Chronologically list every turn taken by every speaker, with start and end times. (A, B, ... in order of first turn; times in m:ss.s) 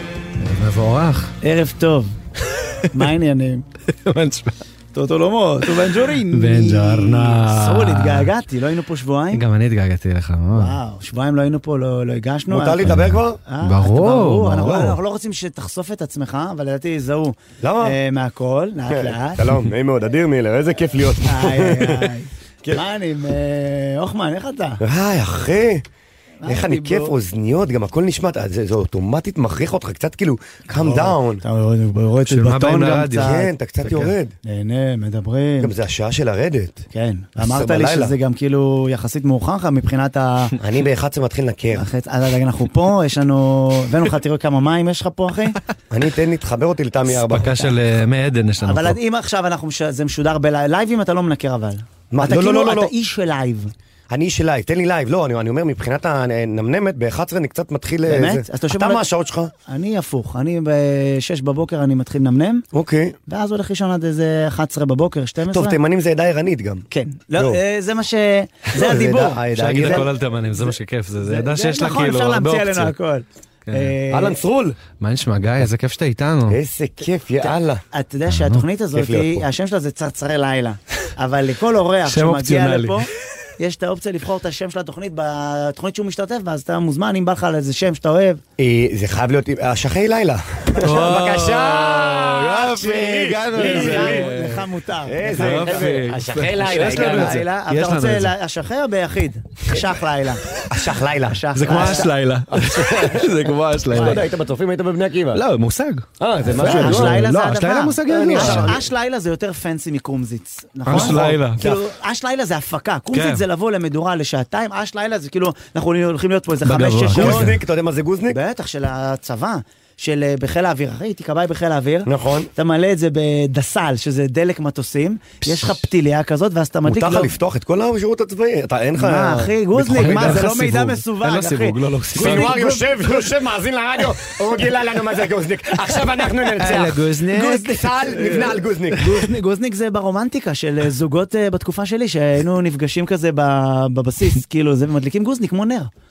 0:00.4-0:01.3 A
0:01.4-0:02.1 B
0:02.5-0:02.9 A
0:02.9-0:03.7 B
0:03.9-0:04.6 A
0:04.9-0:09.4 B
0:06.3-0:08.3 A
0:09.3-0:10.8 A
0:10.5-0:12.9 B
0:12.5-0:13.4 C
0:12.8-0:15.0 A
0:13.5-0:19.4 B
0:17.6-0:18.0 C
0:18.9-0:22.1 C
0:21.2-0:24.8 B
0:24.8-0:25.8 C
0:26.4-0:27.1 B
0:26.4-0:31.4 C
0:30.8-0:33.5 B
0:32.2-0:34.1 A
0:33.2-0:34.4 C
0:34.5-0:35.7 B
0:35.6-0:36.9 C
0:36.9-0:40.6 B
0:37.4-0:38.2 C
0:40.6-0:41.9 C
0:41.7-0:45.6 B
0:45.9-0:47.8 C
0:47.2-0:49.0 A
0:48.6-0:53.7 B
0:52.1-0:52.9 C
0:54.1-0:59.5 C
0:58.1-0:59.0 B
0:59.7-1:02.6 B
1:02.7-1:03.2 C
1:03.3-1:05.8 B
1:05.5-1:07.6 C
1:06.9-1:14.4 B
1:08.7-1:10.1 C
1:09.5-1:12.9 A
1:13.7-1:13.9 A
1:14.1-1:14.8 C
1:15.0-1:16.6 A
1:16.5-1:17.8 C
1:17.9-1:23.1 B
1:18.3-1:18.6 A
1:18.9-1:19.5 C
1:22.0-1:23.1 A
1:23.6-1:28.4 B
1:28.6-1:34.3 C
1:30.8-1:34.7 A
1:33.5-1:35.9 B
1:35.0-1:37.4 C
1:35.4-1:38.3 A
1:36.7-1:40.5 B
1:40.7-1:45.4 C
1:41.3-1:42.1 B
1:41.5-1:44.3 A
1:43.9-1:44.2 B
1:45.3-1:48.8 A
1:46.2-1:47.2 C
1:46.4-1:57.5 B
1:48.0-1:48.8 C
1:50.9-1:51.6 A
1:50.9-1:51.8 C
1:53.1-1:53.4 A
1:56.6-1:57.6 A
1:57.1-1:58.4 C
1:58.3-2:07.3 B
2:02.1-2:02.5 C
2:05.5-2:05.8 A
2:06.9-2:10.4 C
2:09.0-2:12.9 B
2:09.8-2:12.6 A
2:12.2-2:19.2 C
2:16.6-2:19.1 A
2:19.0-2:25.9 B